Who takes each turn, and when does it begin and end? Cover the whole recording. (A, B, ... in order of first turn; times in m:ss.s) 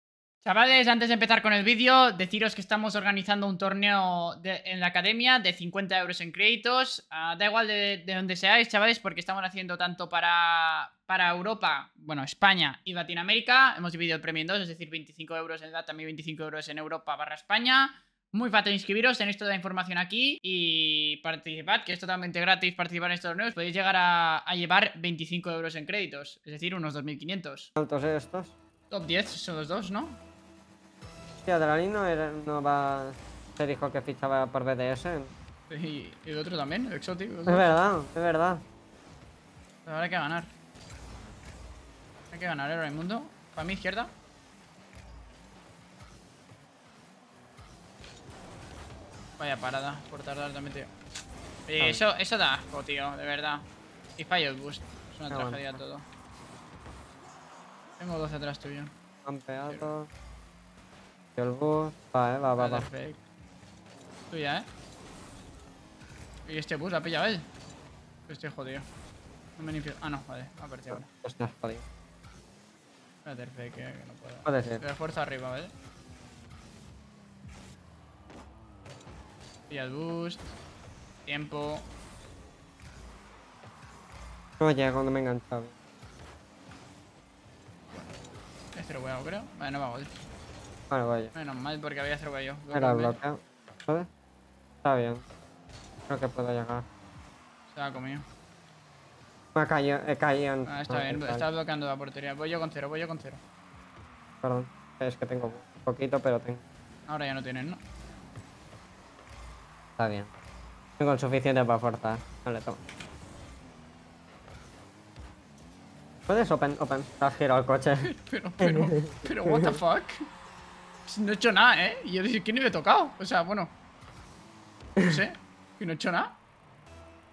0:00.4-0:27.7 A
0:27.8-0:28.5 B
0:28.9-0:30.2 A
0:31.4-0:35.3 B
0:35.7-0:37.7 A
0:37.5-0:38.6 B
0:39.8-0:40.5 A
0:42.3-0:44.1 A
0:49.4-0:50.9 A
0:51.7-0:53.6 A
0:54.2-0:56.0 A
0:55.3-0:55.8 B
0:58.0-0:58.9 A
0:59.2-1:00.1 B
1:01.4-1:02.9 B
1:02.6-1:03.2 A
1:04.3-1:04.7 A
1:06.4-1:07.5 A
1:08.3-1:08.8 A
1:09.6-1:11.1 A
1:10.9-1:11.8 B
1:13.2-1:15.7 A
1:14.4-1:14.8 B
1:19.7-1:20.5 A
1:21.2-1:21.8 A
1:24.6-1:25.7 B
1:28.7-1:30.1 A
1:30.9-1:31.3 B
1:31.3-1:33.2 A
1:32.7-1:34.1 B
1:34.8-1:35.2 B
1:36.1-1:36.9 B
1:37.7-1:38.2 A
1:39.5-1:41.4 B
1:40.6-1:43.4 A
1:44.4-1:46.6 B
1:47.1-1:47.8 A
1:50.0-1:50.3 B
1:51.0-1:52.8 B
1:56.3-1:59.7 B
1:58.0-2:00.2 A
2:01.0-2:03.7 A
2:05.0-2:06.3 A